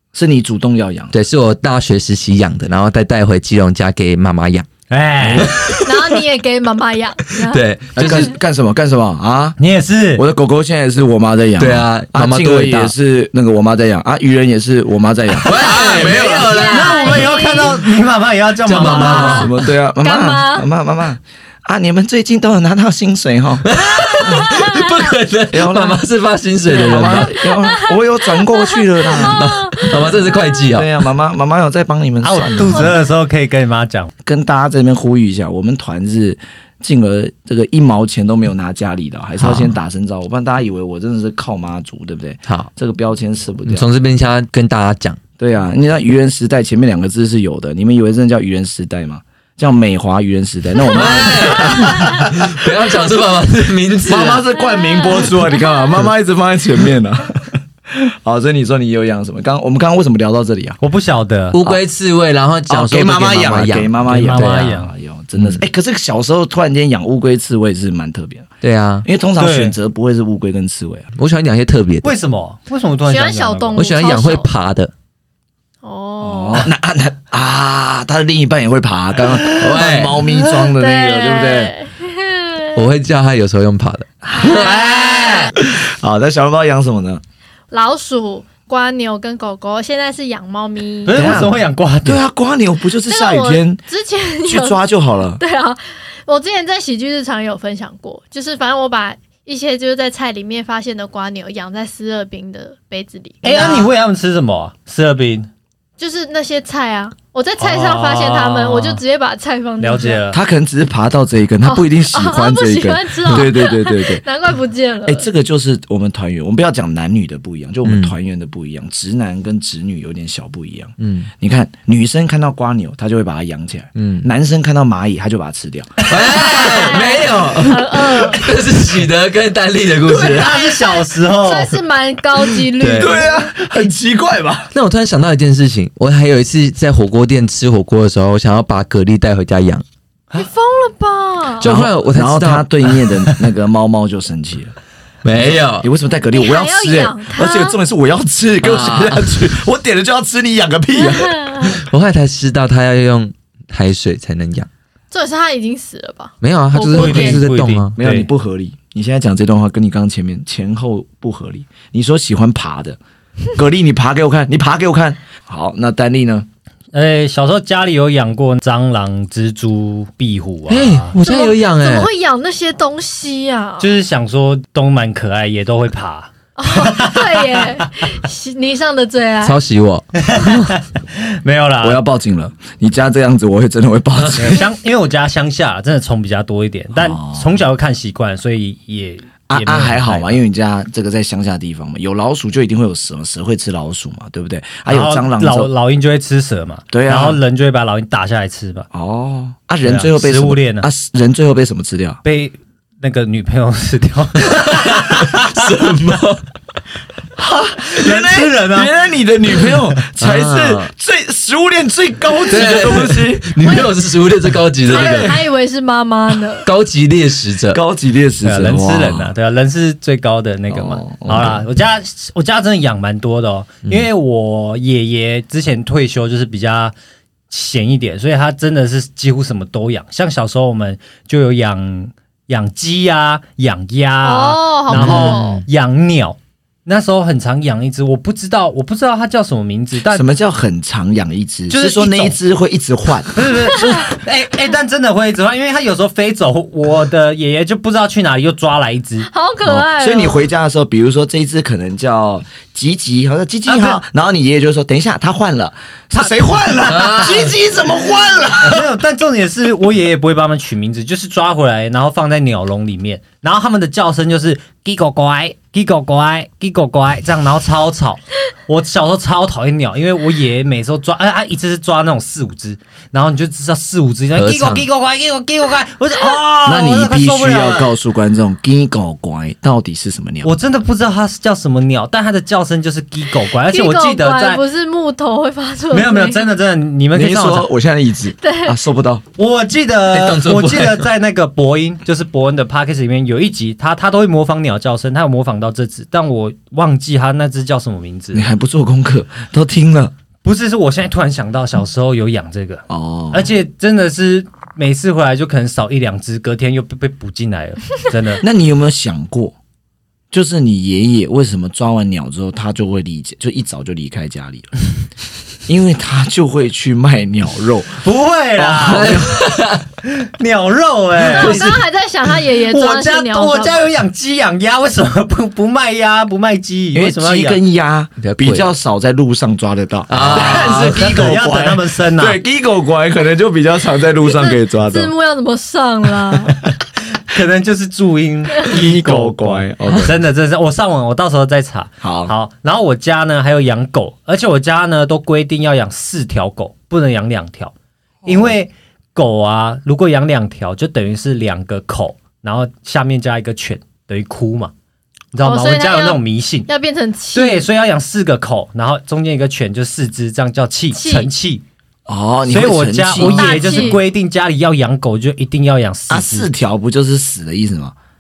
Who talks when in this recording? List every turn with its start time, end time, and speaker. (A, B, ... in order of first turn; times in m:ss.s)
0:00.1-0:01.2 A
0:01.1-0:04.7 B
0:04.9-0:05.5 C
0:05.2-0:06.2 B
0:05.8-0:08.3 D
0:07.4-0:08.4 B
0:08.0-0:09.6 A
0:09.6-0:10.2 C
0:10.2-0:16.7 A
0:11.6-0:12.9 B
0:15.4-0:17.6 B
0:15.6-0:19.5 C
0:15.6-0:17.8 D
0:18.7-0:19.5 B
0:18.8-0:23.7 A
0:18.9-0:19.4 D
0:20.0-0:20.6 D
0:23.6-0:27.4 B
0:24.2-0:24.8 A
0:24.2-0:25.1 D
0:25.5-0:26.0 A
0:26.7-0:33.0 A
0:27.4-0:27.9 D
0:28.6-0:30.4 D
0:29.2-0:30.9 B
0:32.2-0:34.1 C
0:32.7-0:33.0 D
0:34.2-0:43.9 A
0:39.4-0:39.8 B
0:43.7-0:45.2 B
0:45.4-0:52.6 A
0:50.9-0:54.4 B
0:54.0-1:00.8 A
1:00.8-1:01.6 C
1:01.5-1:04.7 B
1:02.7-1:08.5 A
1:04.1-1:04.9 C
1:05.4-1:05.6 B
1:08.6-1:09.1 B
1:09.0-1:11.1 A
1:09.4-1:09.8 C
1:11.2-1:12.1 B
1:12.0-1:13.9 C
1:13.1-1:14.5 D
1:13.8-1:14.9 B
1:15.8-1:16.7 D
1:16.2-1:21.7 A
1:19.5-1:20.2 B
1:20.7-1:22.8 D
1:22.8-1:25.5 B
1:24.2-1:24.8 A
1:24.4-1:25.5 D
1:25.6-1:27.2 A
1:27.7-1:31.3 D
1:31.1-1:32.2 C
1:31.1-1:33.8 A
1:33.1-1:34.8 D
1:34.4-1:35.4 A
1:35.4-1:43.9 D
1:43.4-1:45.5 C
1:46.0-1:50.2 D
1:47.6-1:49.0 C
1:49.8-1:50.4 C
1:50.3-1:54.2 A
1:51.6-1:55.3 D
1:53.3-1:53.5 B
1:55.0-2:06.0 A
1:57.8-1:58.1 B
2:01.0-2:01.3 B
2:04.0-2:04.3 B
2:06.1-2:10.6 B
2:06.4-2:08.5 D
2:10.1-2:11.8 C
2:10.2-2:13.7 D
2:12.8-2:13.2 B
2:12.9-2:14.7 A
2:14.7-2:19.8 B
2:20.3-2:21.7 D
2:21.6-2:23.3 B
2:21.6-2:24.7 A
2:25.2-2:25.9 B
2:25.4-2:31.4 A
2:26.3-2:27.8 D
2:28.6-2:29.5 B
2:31.0-2:31.8 D
2:31.7-2:34.7 B
2:35.1-2:37.4 D
2:36.4-2:38.0 B
2:36.9-2:38.3 C
2:38.0-2:43.0 A
2:43.6-2:46.5 A
2:46.9-2:51.2 C
2:50.7-2:52.1 B
2:51.2-2:53.9 D
2:53.8-2:57.6 C
2:56.6-2:59.6 D
2:59.4-3:00.7 B
3:00.2-3:02.0 C
3:01.8-3:04.7 A
3:04.4-3:10.4 C
3:06.9-3:07.5 A
3:09.5-3:15.7 A
3:14.9-3:18.9 C
3:16.9-3:17.4 A
3:18.9-3:22.2 A
3:19.8-3:20.9 C
3:22.2-3:25.6 C
3:24.6-3:26.4 B
3:27.4-3:33.5 A
3:27.8-3:28.9 C
3:30.2-3:30.9 B
3:32.5-3:35.5 B
3:33.6-3:33.9 D
3:34.9-3:36.7 D
3:34.9-3:35.3 A
3:36.6-3:37.8 B
3:37.7-3:39.3 A
3:38.4-3:46.9 C
3:40.7-3:41.6 A
3:47.5-4:00.3 C
3:54.2-3:55.6 D
3:54.9-3:55.6 B
4:00.1-4:03.3 A
4:01.7-4:02.4 C
4:03.3-4:09.3 C
4:09.3-4:10.4 D
4:09.6-4:18.9 A
4:13.7-4:14.0 C
4:16.2-4:17.4 C
4:16.9-4:17.5 B
4:18.6-4:37.9 C
4:34.4-4:34.8 B
4:36.6-4:40.6 A
4:40.4-4:44.6 C
4:43.7-4:46.5 D
4:45.9-4:47.7 C
4:47.1-4:49.2 A
4:48.4-4:48.8 D
4:49.4-4:58.5 C
4:50.1-4:51.1 B
4:58.3-5:00.1 A
5:00.4-5:08.4 C
5:02.9-5:03.5 A
5:08.4-5:09.6 A
5:10.3-5:14.7 A
5:15.7-5:18.0 A
5:18.0-5:19.2 C
5:18.6-5:19.4 A
5:18.9-5:19.8 B
5:20.2-5:21.8 C
5:21.3-5:23.9 D
5:21.4-5:21.8 B
5:22.7-5:27.6 C
5:26.9-5:35.1 A
5:28.2-5:28.7 B
5:30.1-5:31.4 B
5:30.3-5:32.4 C
5:34.2-5:36.6 D
5:37.3-5:47.7 C
5:38.6-5:40.2 A
5:42.0-5:42.3 A
5:48.2-5:48.5 A
5:48.2-5:54.7 C
5:55.3-5:56.7 C
5:55.4-5:57.7 D
5:57.3-6:01.6 C
6:00.9-6:01.3 D
6:02.1-6:04.0 A
6:02.5-6:06.5 C
6:03.2-6:04.0 D
6:06.1-6:08.0 A